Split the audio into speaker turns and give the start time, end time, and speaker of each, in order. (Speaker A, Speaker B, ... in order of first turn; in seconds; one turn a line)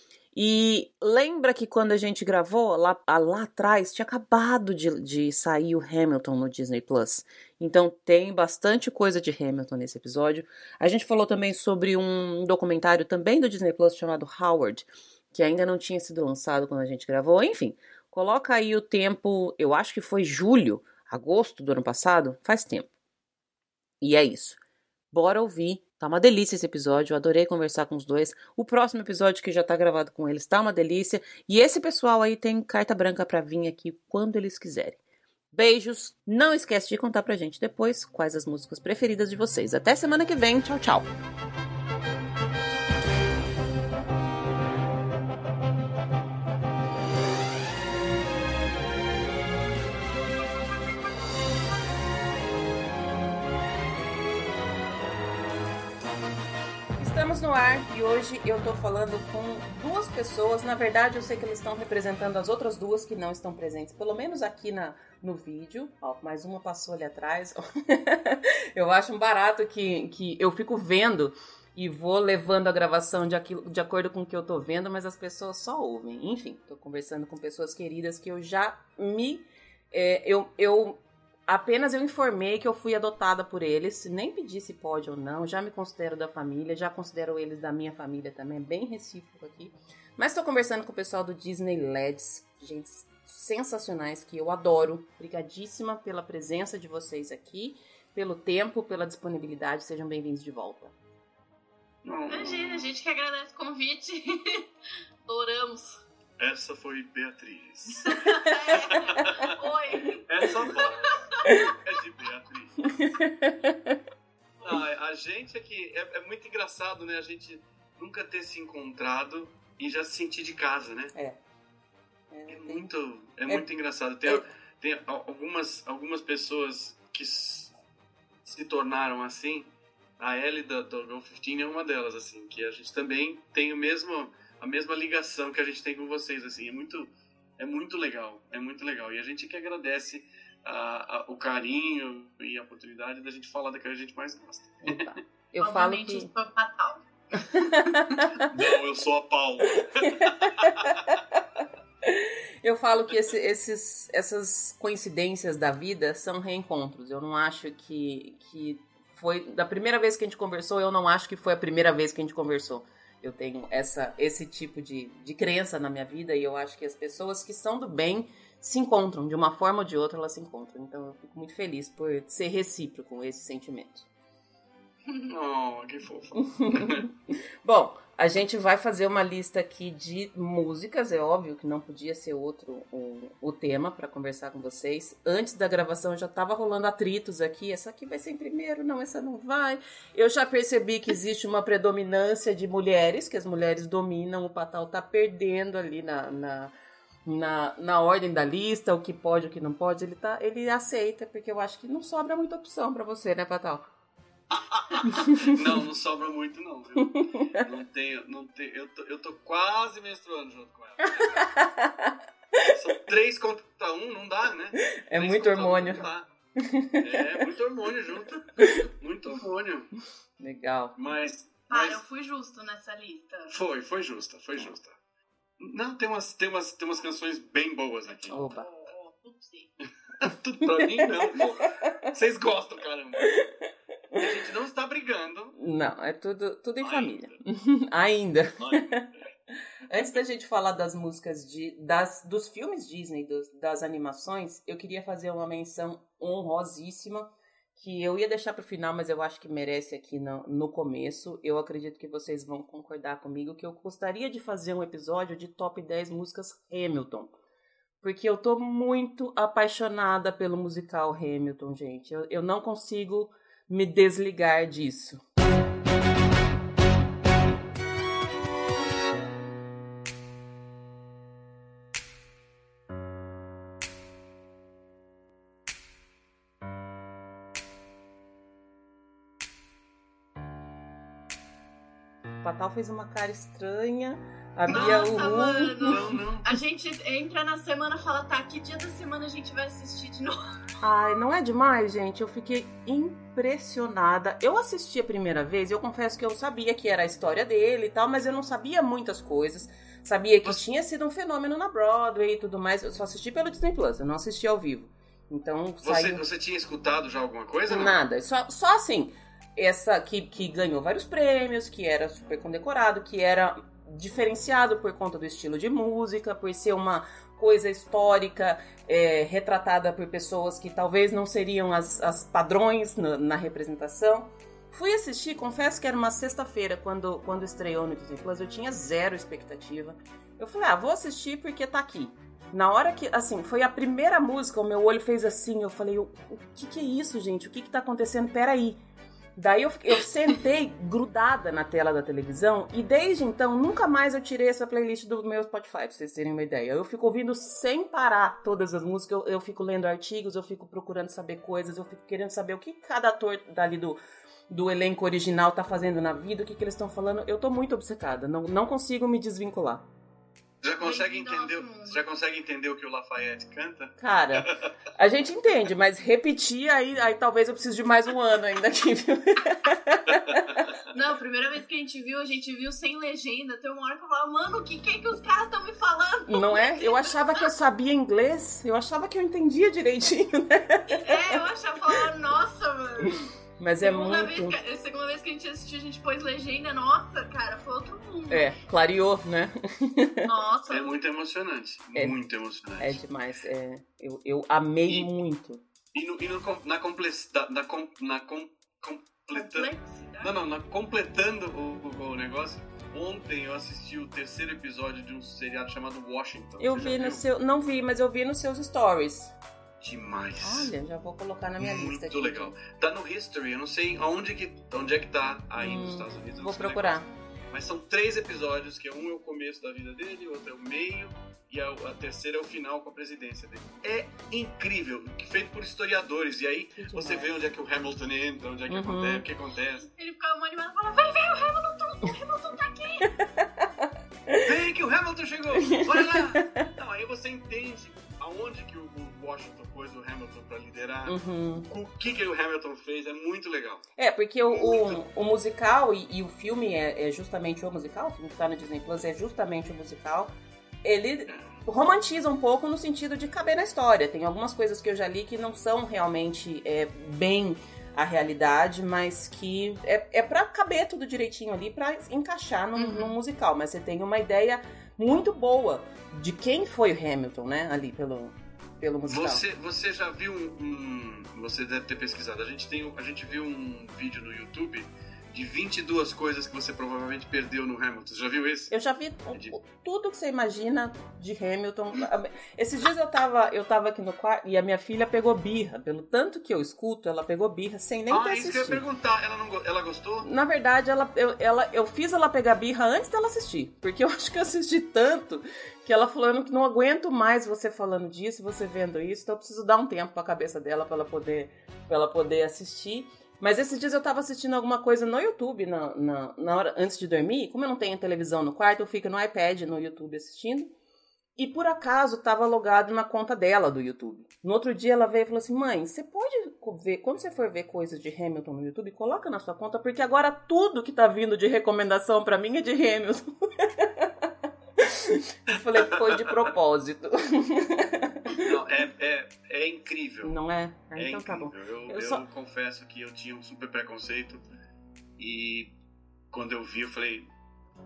Speaker A: 0.3-22.9
Speaker A: 24.0-24.6
Speaker A: 25.1-35.0
Speaker A: 35.5-41.1
Speaker A: 57.0-100.9
Speaker B: 102.0-102.8
Speaker C: 102.3-104.7
Speaker C: 105.2-106.0
Speaker B: 106.4-109.5
Speaker C: 108.0-111.5
Speaker B: 110.3-111.2
Speaker B: 111.7-112.9
Speaker A: 113.0-114.0
Speaker B: 114.6-121.1
Speaker A: 122.3-122.9
Speaker B: 122.5-127.7
Speaker B: 128.4-145.2
Speaker A: 144.8-146.3
Speaker C: 145.6-147.6
Speaker A: 147.5-148.5
Speaker B: 148.5-151.2
Speaker A: 150.0-150.9
Speaker A: 152.0-174.1
Speaker B: 153.1-153.3
Speaker B: 175.3-177.1
Speaker A: 176.5-177.1
Speaker A: 177.6-196.7
Speaker A: 197.2-203.9
Speaker B: 204.5-211.4
Speaker A: 205.1-205.5
Speaker A: 207.1-207.6
Speaker A: 211.2-212.7
Speaker B: 212.7-216.3
Speaker A: 214.9-216.1
Speaker A: 216.6-217.4
Speaker B: 217.0-219.9
Speaker A: 220.4-220.9
Speaker B: 221.0-222.0
Speaker C: 221.7-223.5
Speaker B: 223.5-224.9
Speaker B: 225.6-228.5
Speaker C: 228.1-229.7
Speaker A: 228.3-228.7
Speaker B: 230.2-233.3
Speaker B: 234.2-235.6
Speaker A: 235.6-239.1
Speaker B: 236.8-237.4
Speaker B: 238.6-239.2
Speaker A: 239.9-257.3
Speaker A: 258.0-265.2
Speaker A: 282.4-285.9
Speaker C: 284.7-290.4
Speaker B: 285.8-286.5
Speaker A: 290.8-306.2
Speaker B: 305.8-308.0
Speaker A: 307.7-338.8
Speaker A: 339.4-354.0
Speaker A: 354.5-359.9
Speaker B: 360.6-364.7
Speaker C: 360.8-362.0
Speaker A: 364.0-370.6
Speaker B: 370.1-370.8
Speaker C: 370.9-377.4
Speaker A: 376.3-381.1
Speaker C: 381.0-383.3
Speaker A: 383.6-384.6
Speaker C: 383.8-388.5
Speaker A: 388.3-390.2
Speaker C: 390.2-390.9
Speaker B: 390.7-393.0
Speaker A: 392.8-395.6
Speaker B: 395.9-399.7
Speaker C: 399.3-400.3
Speaker B: 400.2-407.2
Speaker A: 406.6-409.3
Speaker B: 409.8-410.7
Speaker A: 410.4-412.6
Speaker B: 411.6-429.9
Speaker A: 415.6-417.1
Speaker A: 426.8-427.3
Speaker A: 428.7-429.2
Speaker C: 429.8-433.1
Speaker A: 433.4-433.7
Speaker B: 434.4-443.8
Speaker A: 435.7-436.6
Speaker A: 441.1-441.7
Speaker A: 444.0-450.3
Speaker B: 444.5-445.0
Speaker A: 450.8-469.4
Speaker B: 451.3-451.5
Speaker C: 462.8-463.2
Speaker B: 469.1-478.7
Speaker A: 478.7-488.8
Speaker B: 488.1-490.3
Speaker A: 490.2-510.7
Speaker A: 511.4-524.2
Speaker A: 524.8-528.5
Speaker B: 525.5-526.4
Speaker B: 528.3-530.4
Speaker A: 530.2-532.2
Speaker B: 531.0-534.4
Speaker B: 535.2-535.7
Speaker B: 536.3-537.3